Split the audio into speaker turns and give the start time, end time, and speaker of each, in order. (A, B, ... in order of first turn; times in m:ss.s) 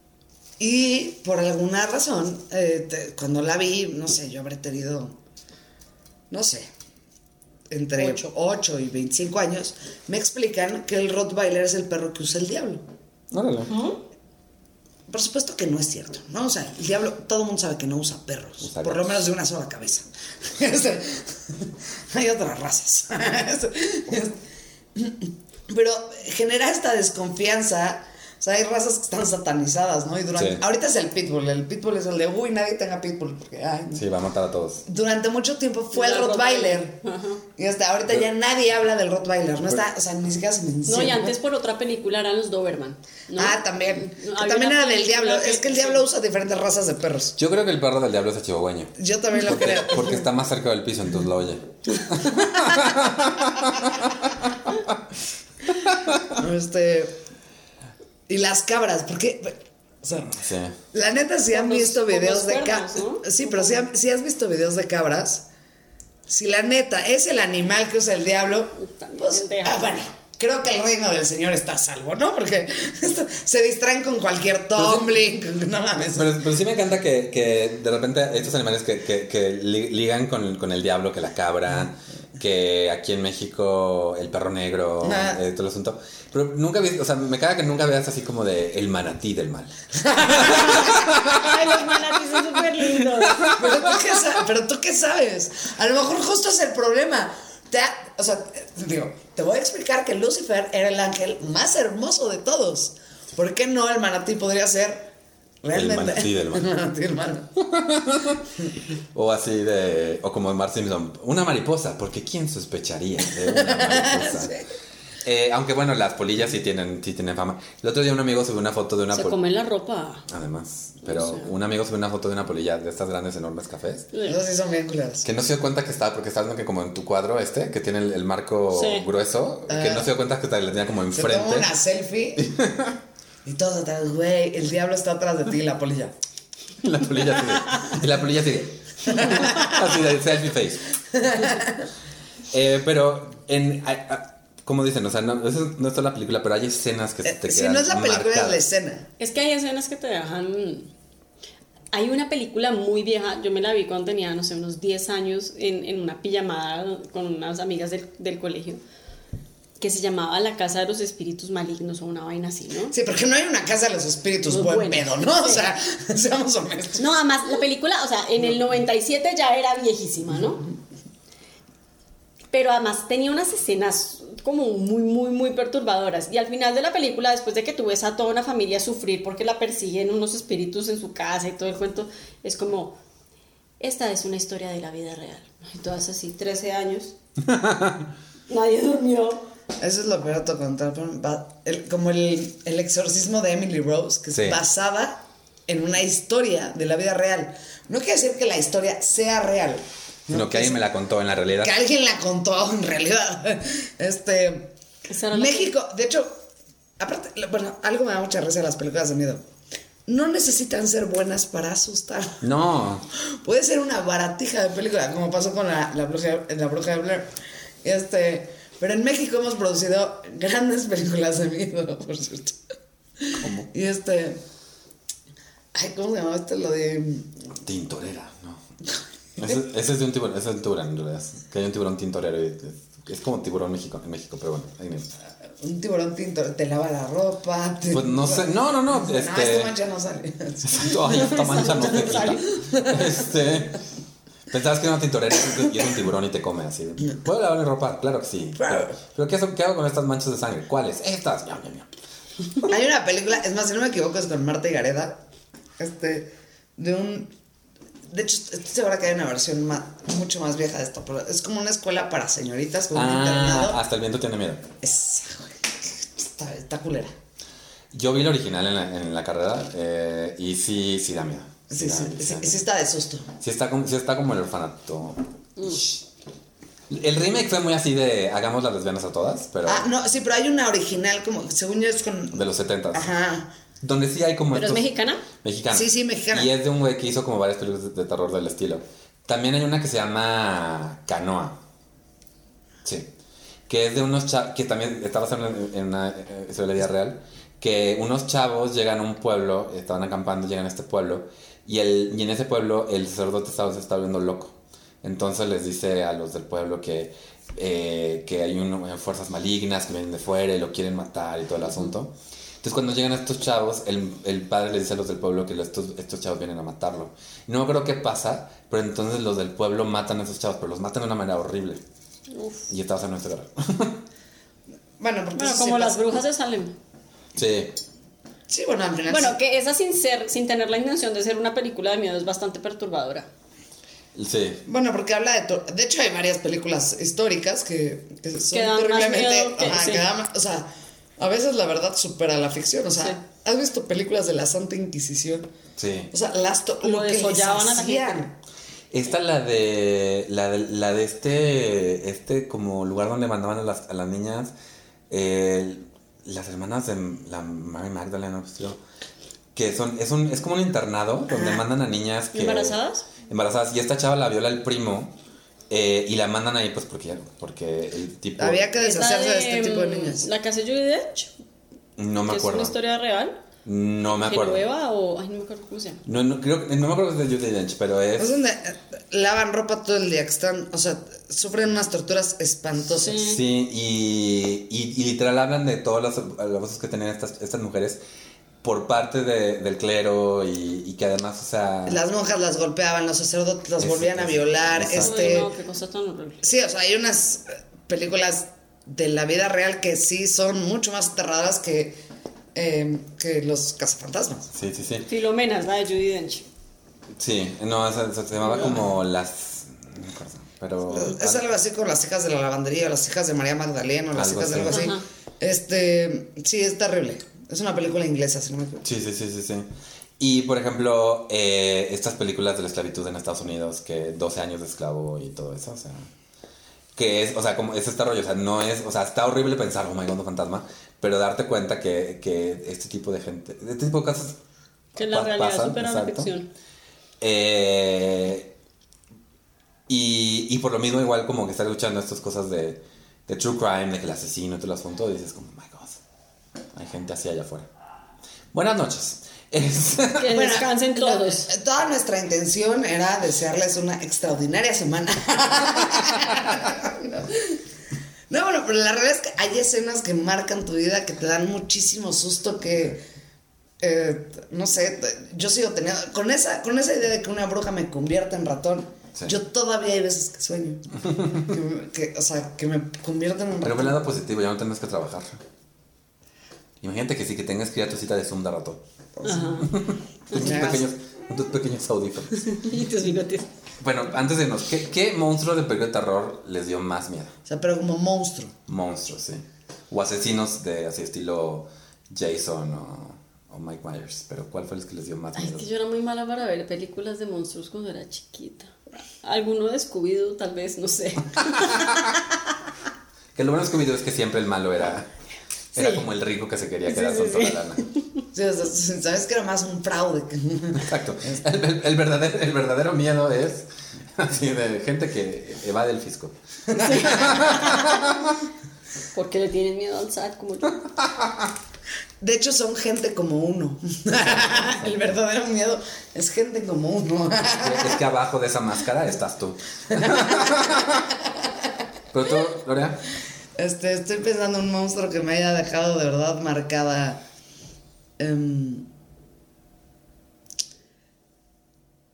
0:00.6-0:05.1 A
0:06.3-0:06.7 A
0:07.7-0:12.8 A
0:08.0-0:08.3 B
0:13.3-0:13.7 C
0:13.7-0:14.0 B
0:15.1-0:24.4 A
0:18.6-0:19.2 C
0:24.9-0:34.0 A
0:30.4-0:30.6 C
0:33.9-0:34.8 C
0:34.9-0:37.0 A
0:35.9-0:37.4 B
0:37.6-0:41.4 A
0:40.9-0:46.0 B
0:43.4-0:47.4 A
0:47.4-0:54.1 C
0:49.0-0:50.2 A
0:55.9-0:56.2 C
0:56.4-0:57.2 A
0:58.3-1:00.4 A
1:00.4-1:00.7 C
1:00.9-1:05.4 A
1:01.5-1:03.6 B
1:06.3-1:16.4 A
1:08.7-1:10.0 B
1:14.8-1:15.1 C
1:16.1-1:31.9 C
1:25.0-1:25.4 A
1:30.0-1:31.0 A
1:30.4-1:33.6 B
1:33.3-1:33.9 C
1:33.5-1:47.5 A
1:45.7-1:46.7 C
1:47.6-1:48.5 C
1:49.1-1:54.6 C
1:53.4-1:54.6 A
1:55.2-1:59.4 C
1:59.1-2:00.2 B
2:00.3-2:04.1 C
2:01.0-2:01.5 B
2:04.2-2:05.2 A
2:05.2-2:11.7 C
2:08.7-2:09.1 B
2:09.7-2:10.1 A
2:11.1-2:12.5 A
2:12.4-2:12.9 C
2:13.4-2:16.1 A
2:16.8-2:20.9 C
2:19.1-2:19.9 A
2:21.1-2:21.9 A
2:22.5-2:28.6 C
2:27.2-2:29.1 A
2:29.2-2:30.9 B
2:31.9-2:38.8 B
2:39.8-2:42.9 B
2:42.9-2:47.0 A
2:44.5-2:45.7 B
2:47.0-2:50.6 B
2:52.5-3:03.0 B
3:03.8-3:07.1 B
3:07.4-3:08.1 C
3:08.5-3:09.4 B
3:09.8-3:20.8 A
3:20.3-3:21.7 C
3:21.6-3:24.7 A
3:25.1-3:25.7 B
3:25.3-3:26.4 A
3:27.0-3:29.4 A
3:30.1-3:32.4 A
3:32.4-3:33.0 C
3:33.4-3:37.3 A
3:37.8-3:42.6 A
3:43.2-3:44.4 A
3:43.4-3:43.7 C
3:45.7-3:47.3 A
3:47.6-3:48.6 C
3:49.4-3:55.1 C
3:55.6-4:03.3 A
3:57.9-3:59.7 C
4:00.6-4:03.8 C
4:01.0-4:02.4 B
4:04.5-4:11.9 C
4:08.6-4:08.9 A
4:12.6-4:15.2 A
4:15.8-4:17.3 A
4:18.1-4:23.8 A
4:22.9-4:24.6 C
4:24.8-4:27.1 A
4:27.9-4:32.6 C
4:31.7-4:33.3 A
4:33.4-4:36.0 C
4:36.9-4:39.9 C
4:39.6-4:42.4 A
4:42.3-4:43.1 C
4:42.9-4:43.5 A
4:43.8-4:51.6 C
4:44.5-4:45.2 B
4:45.7-4:46.5 A
4:52.8-4:53.1 C
4:53.7-5:21.8 C
5:22.3-5:22.7 B
5:22.7-5:24.0 C
5:25.0-5:26.1 A
5:25.4-5:26.7 B
5:27.4-5:27.7 C
5:28.5-5:29.4 A
5:29.1-5:33.3 B
5:34.1-5:34.6 C
5:34.6-5:45.5 A
5:38.5-5:40.0 B
5:45.8-5:46.1 C
5:46.1-5:48.3 A
5:46.8-5:48.3 B
5:48.9-5:54.5 C
5:55.1-5:58.8 C
5:59.6-6:05.1 C
6:01.3-6:01.6 A
6:02.3-6:03.1 B
6:05.7-6:08.7 C
6:08.4-6:10.3 A
6:08.8-6:11.3 B
6:12.0-6:12.8 C
6:12.3-6:13.4 B
6:13.6-6:14.7 C
6:14.1-6:16.0 B
6:16.1-6:18.4 C
6:18.2-6:23.2 A
6:23.0-6:23.4 B
6:23.2-6:28.0 C
6:28.6-6:32.0 C
6:31.9-6:35.5 A
6:33.8-6:35.2 C
6:34.9-6:36.4 B
6:36.4-6:42.0 A
6:42.5-6:44.5 A
6:44.5-6:45.1 C
6:45.1-6:46.4 B
6:47.2-6:51.5 C
6:50.9-6:58.8 A
6:54.1-6:54.9 C
6:54.7-6:55.0 B
6:58.8-6:59.7 C
7:00.2-7:06.1 C
7:07.0-7:14.4 C
7:15.0-7:16.5 B
7:15.0-7:16.3 C
7:17.2-7:18.5 C
7:19.9-7:26.0 C
7:26.7-7:27.7 C
7:28.5-7:30.4 C
7:30.2-7:31.5 B
7:30.3-7:37.6 A
7:38.3-7:43.0 A
7:43.8-7:54.0 A
7:51.1-7:51.5 C
7:53.6-7:55.4 C
7:56.8-7:58.8 C
7:59.2-7:59.6 A
7:59.2-7:59.7 B
7:59.6-8:02.7 C
8:00.3-8:00.8 A
8:02.5-8:03.5 B
8:03.8-8:07.3 C
8:07.4-8:08.5 A
8:08.7-8:15.7 C
8:15.4-8:22.1 B
8:21.6-8:22.0 C
8:23.4-8:25.1 C
8:25.7-8:26.1 B
8:25.7-8:27.8 C
8:26.9-8:28.2 B
8:28.3-8:31.4 A
8:30.8-8:38.2 C
8:36.7-8:37.2 A
8:36.7-8:38.1 B
8:39.1-8:40.8 B
8:41.0-8:41.5 C
8:42.2-8:48.0 A
8:47.6-8:51.0 C
8:49.9-8:51.7 A
8:52.1-8:53.0 C
8:53.6-8:57.2 A
8:58.2-8:58.9 A